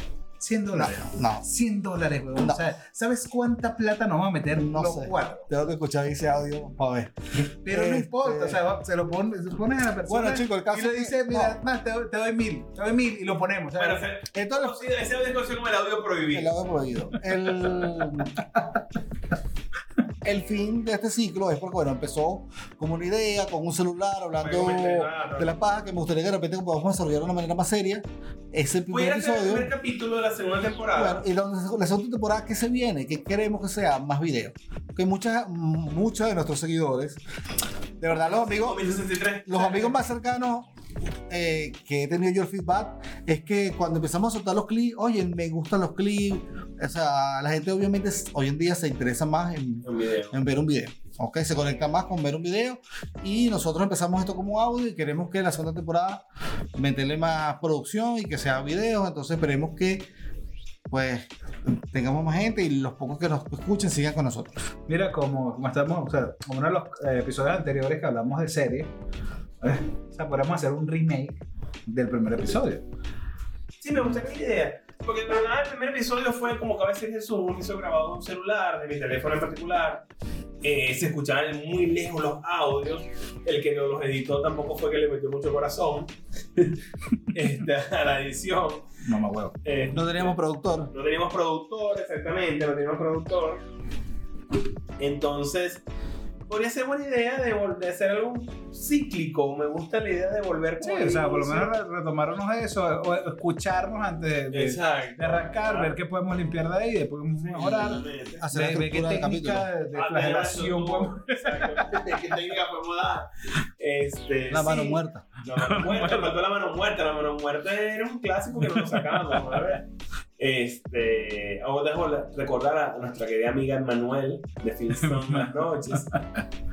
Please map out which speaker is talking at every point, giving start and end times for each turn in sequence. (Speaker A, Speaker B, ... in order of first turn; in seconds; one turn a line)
Speaker A: 0.4-5.5
Speaker B: 0.7-1.4
Speaker B: 4.5-8.6
Speaker A: 7.6-14.1
Speaker B: 10.1-11.5
Speaker C: 13.8-16.6
Speaker B: 14.3-14.8
Speaker B: 16.3-18.4
Speaker B: 20.2-29.7
Speaker C: 24.4-25.5
Speaker C: 28.9-31.2
Speaker B: 30.9-37.2
Speaker B: 38.0-38.8
Speaker C: 38.2-40.0
Speaker B: 39.5-40.7
Speaker B: 41.3-56.2
Speaker C: 49.8-50.5
Speaker B: 56.8-60.1
Speaker B: 60.9-64.5
Speaker A: 64.9-68.9
Speaker A: 69.6-72.8
Speaker C: 73.8-80.0
Speaker C: 80.6-86.8
Speaker C: 87.3-88.9
Speaker A: 89.0-89.6
Speaker C: 89.6-90.4
Speaker B: 89.9-90.9
Speaker C: 90.9-93.6
Speaker C: 95.0-95.8
Speaker C: 96.5-101.7
Speaker A: 100.8-112.2
Speaker C: 104.5-106.0
Speaker C: 107.4-108.4
Speaker B: 107.6-109.7
Speaker C: 109.9-113.3
Speaker C: 113.8-119.9
Speaker B: 114.5-115.3
Speaker A: 115.5-116.3
Speaker A: 118.6-119.2
Speaker C: 120.4-126.1
Speaker A: 125.0-126.4